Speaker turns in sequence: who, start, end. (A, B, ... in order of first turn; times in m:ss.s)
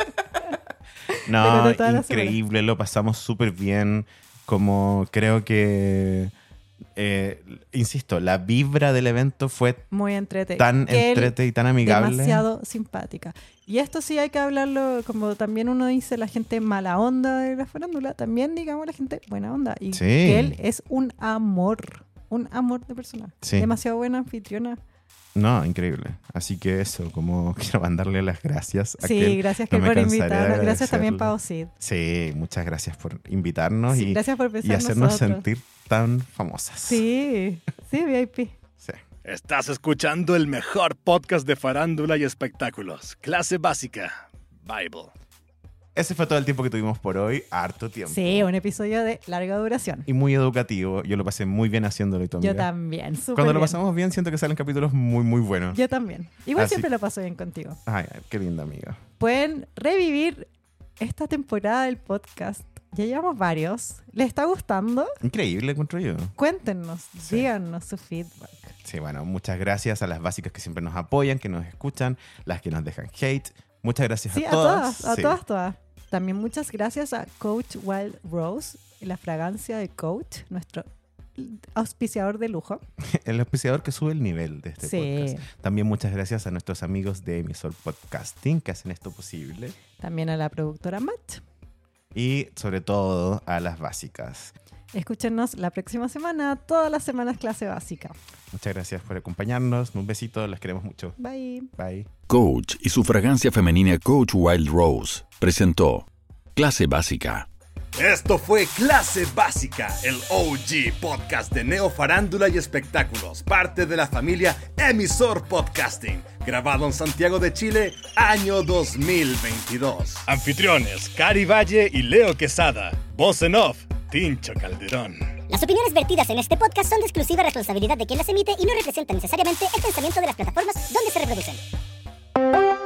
0:01.1-0:02.4 A
0:01.2-0:06.3 B
0:07.0-0:09.9 B
0:09.9-0:24.8 A
0:10.6-0:12.4 B
0:19.9-0:20.6 B
0:23.4-0:23.7 B
0:25.3-0:37.0 B
0:29.0-0:31.7 A
0:33.9-0:35.4 A
0:36.9-0:38.5 A
0:39.2-0:44.1 C
0:44.6-0:45.1 C
0:45.9-0:48.5 B
0:48.1-0:50.1 A
0:50.1-0:52.7 B
0:52.4-0:53.8 A
0:53.3-0:55.8 B
0:55.7-0:57.8 A
0:56.6-0:56.9 B
0:57.8-0:59.0 B
0:59.2-1:00.5 A
1:01.0-1:05.2 A
1:05.2-1:06.3 B
1:06.4-1:08.7 A
1:08.8-1:15.4 B
1:14.3-1:22.8 A
1:23.0-1:29.8 B
1:24.8-1:25.5 A
1:30.0-1:31.4 A
1:32.1-1:34.5 B
1:34.9-1:38.2 A
1:38.5-1:41.2 B
1:41.2-1:41.7 A
1:41.8-1:42.1 B
1:42.3-1:47.5 D
1:47.9-2:05.3 C
2:05.5-2:11.6 E